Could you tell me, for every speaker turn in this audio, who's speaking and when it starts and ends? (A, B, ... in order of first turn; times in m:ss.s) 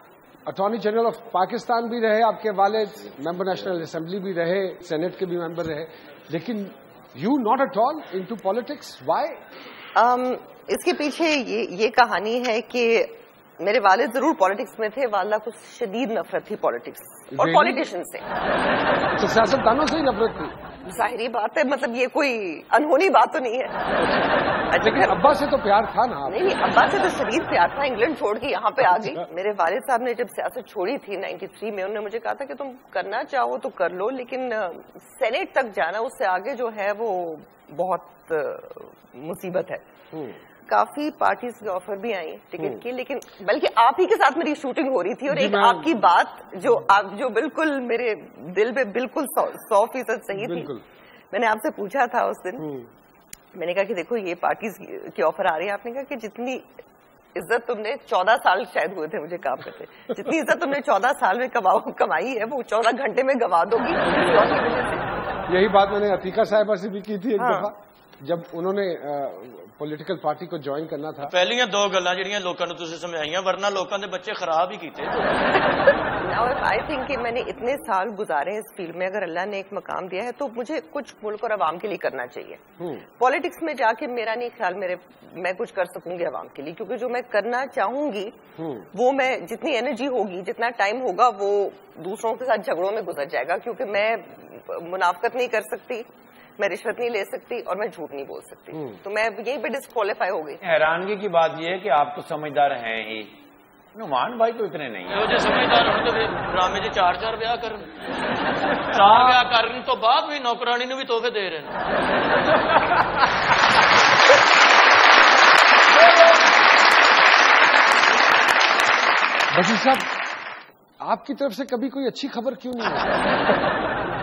0:00.4-0:09.4 A
0:10.0-0:18.2 B
0:17.3-0:17.9 A
0:19.1-0:20.6 A
0:20.8-0:23.8 B
0:24.0-0:26.5 A
0:24.7-0:25.3 B
0:26.3-0:39.8 B
0:28.8-0:29.2 A
0:40.1-0:40.4 A
0:40.7-0:50.7 B
0:45.3-0:46.0 A
0:50.3-0:50.8 A
0:51.3-0:52.7 B
0:52.6-0:52.9 A
0:53.5-0:56.7 B
0:57.3-1:05.0 B
1:05.5-1:11.3 A
1:07.4-1:07.7 B
1:11.2-1:15.6 C
1:16.2-1:22.6 B
1:23.2-1:28.4 B
1:28.6-1:28.9 A
1:28.9-1:36.0 B
1:36.6-1:40.6 B
1:38.7-1:39.0 A
1:40.6-1:43.3 D
1:43.9-1:45.2 D
1:45.1-1:47.9 C
1:48.9-1:51.8 C
1:59.5-2:00.1 A
2:01.0-2:03.2 A